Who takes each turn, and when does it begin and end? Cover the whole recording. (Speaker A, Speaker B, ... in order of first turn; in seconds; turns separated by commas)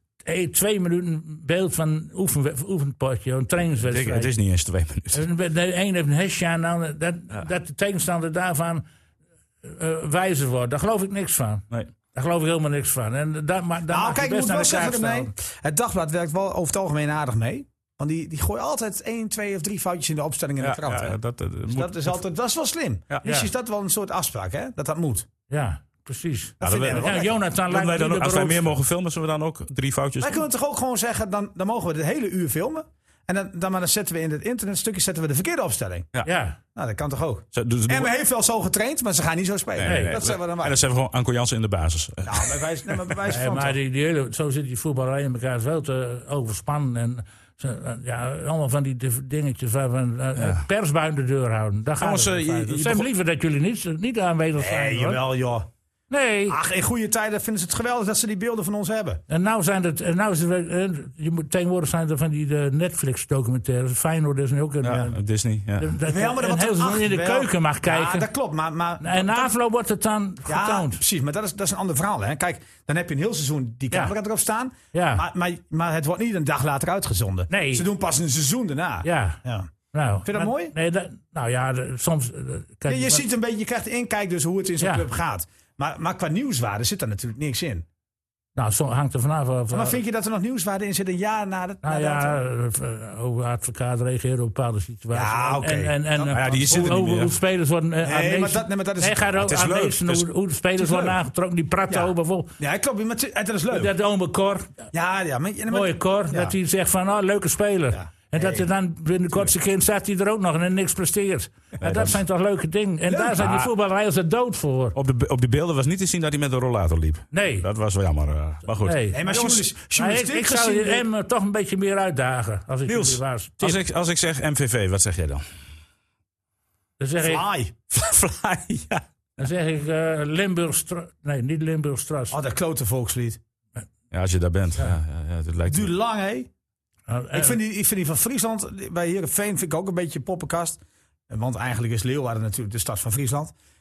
Speaker A: 0.2-4.3, Speaker B: 3.8-5.2, Speaker A: 5.1-8.8, Speaker A: 9.6-15.3, Speaker C: 13.9-21.2, Speaker B: 20.6-22.2, Speaker C: 21.7-25.3, Speaker A: 23.2-23.5, Speaker A: 25.5-28.7, Speaker C: 26.6-27.4, Speaker B: 26.6-30.4, Speaker C: 30.2-36.1, Speaker A: 36.2-36.6, Speaker C: 36.8-40.8, Speaker B: 37.5-38.1, Speaker B: 39.8-43.2, Speaker A: 39.8-40.1, Speaker C: 42.2-43.8, Speaker A: 43.2-55.2, Speaker B: 50.4-50.6, Speaker B: 52.0-53.1, Speaker C: 54.5-55.7, Speaker A: 56.1-56.6, Speaker C: 56.5-59.2, Speaker A: 59.3-65.2, Speaker B: 64.8-65.9, Speaker A: 65.8-68.3, Speaker C: 66.0-69.5, Speaker A: 69.0-71.0, Speaker C: 70.5-79.7, Speaker A: 74.9-75.2, Speaker A: 77.5-77.8, Speaker A: 79.0-79.4, Speaker A: 79.9-83.2, Speaker C: 80.2-80.7, Speaker C: 82.9-87.8, Speaker A: 84.8-85.0, Speaker A: 88.5-90.0, Speaker C: 89.7-92.4, Speaker A: 91.8-102.5, Speaker C: 95.1-96.9, Speaker B: 96.3-97.3, Speaker C: 98.0-99.5, Speaker B: 99.4-100.2, Speaker C: 100.8-101.2, Speaker C: 101.9-103.9, Speaker A: 103.7-104.8, Speaker C: 104.9-106.5, Speaker A: 105.7-115.0, Speaker C: 107.9-108.7, Speaker B: 111.8-112.2, Speaker C: 113.1-113.5, Speaker B: 113.4-113.7, Speaker B: 114.9-119.0, Speaker A: 117.3-117.7, Speaker A: 118.8-123.8, Speaker C: 119.1-121.0, Speaker B: 122.9-125.4, Speaker A: 127.0-127.4, Speaker C: 127.2-127.7, Speaker B: 127.9-129.0, Speaker A: 129.4-132.4, Speaker C: 132.3-133.4, Speaker B: 134.1-135.9, Speaker C: 135.7-136.5, Speaker A: 137.1-137.6, Speaker C: 137.3-143.5